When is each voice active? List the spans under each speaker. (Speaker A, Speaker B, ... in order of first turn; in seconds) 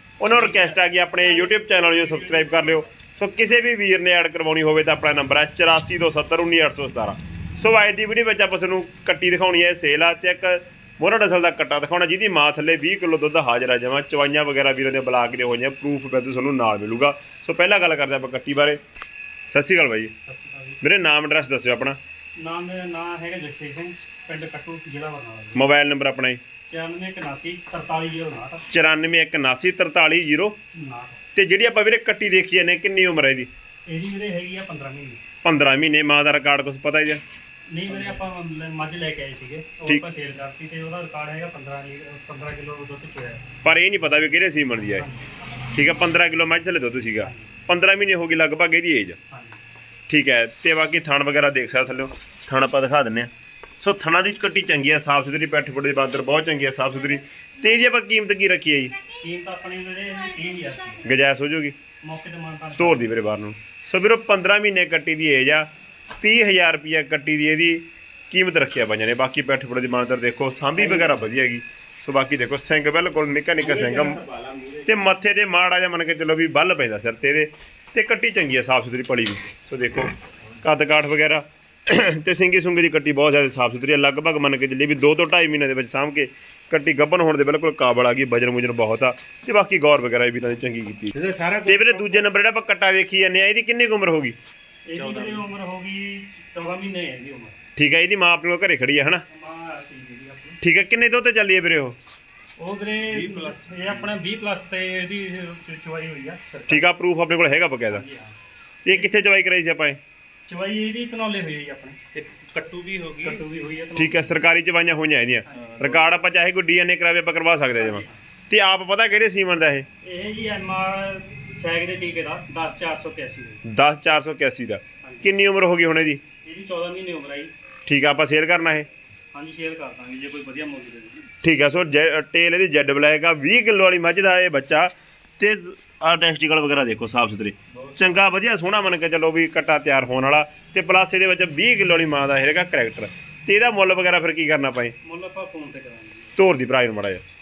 Speaker A: 0.2-18.8, 19.5-20.1, 20.8-22.0, 25.5-26.4, 28.7-30.6, 31.4-33.5, 35.4-37.2, 43.6-45.1, 45.7-49.2, 50.1-59.0, 61.0-61.8, 62.8-65.7, 66.2-74.2, 74.8-94.4, 97.8-99.2, 100.6-102.0, 106.7-108.0, 108.8-110.0, 114.0-119.9, 123.7-126.2, 127.9-128.9, 131.4-145.0, 146.4-147.2
Speaker B: 0.3-2.8, 20.3-20.8, 22.4-25.7, 26.7-28.7, 30.7-31.2, 33.9-35.2, 37.7-43.5, 44.9-45.2, 47.2-47.5, 49.3-49.6, 59.2-61.0, 62.0-63.1, 94.9-97.6, 99.3-100.6, 102.6-106.8, 107.9-108.4, 110.5-112.0, 113.2-114.4, 115.5-115.8, 117.8-118.2, 120.0-123.6, 125.0-125.3, 126.4-127.5, 129.3-131.3, 145.0-146.4
Speaker C: 73.6-75.0, 91.1-92.2, 94.9-95.5, 103.1-104.2, 112.1-113.4, 115.5-116.2